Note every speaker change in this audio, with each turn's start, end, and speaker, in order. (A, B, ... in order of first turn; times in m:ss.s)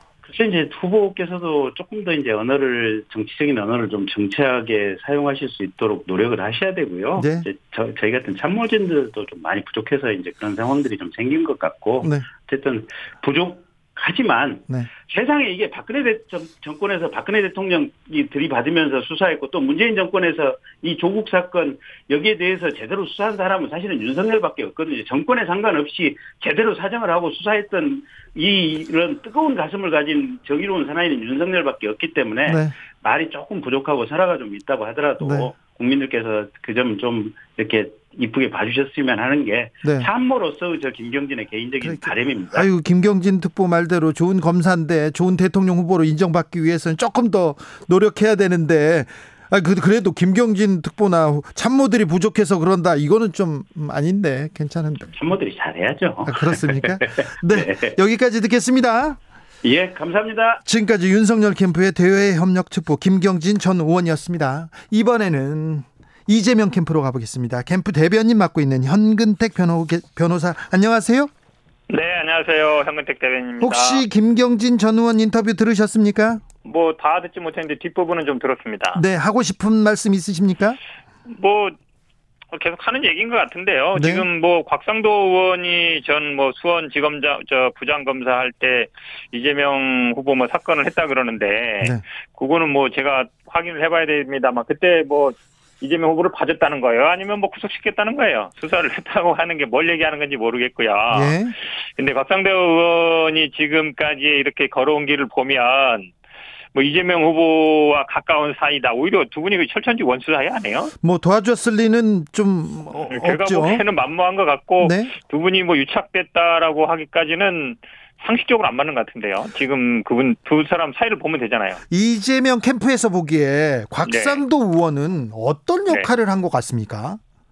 0:00.2-0:42.7 A
0:07.2-0:07.4 B
0:32.5-0:32.7 B
0:35.2-0:35.5 B
0:41.8-0:55.1 B
0:55.1-0:58.0 A
0:56.2-0:59.2 B
0:59.6-1:00.6 A
1:00.6-1:11.3 B
1:11.9-1:14.0 C
1:13.6-1:16.4 B
1:16.6-1:19.0 C
1:18.9-1:20.8 B
1:21.2-1:21.7 C
1:22.5-1:41.4 C
1:24.0-1:24.2 B
1:41.1-1:41.5 B
1:42.0-1:46.1 C
1:46.7-1:50.9 C
1:51.0-1:53.8 B
1:53.1-2:01.8 C
1:54.8-1:55.1 B
2:01.9-2:07.2 B
2:04.0-2:04.4 C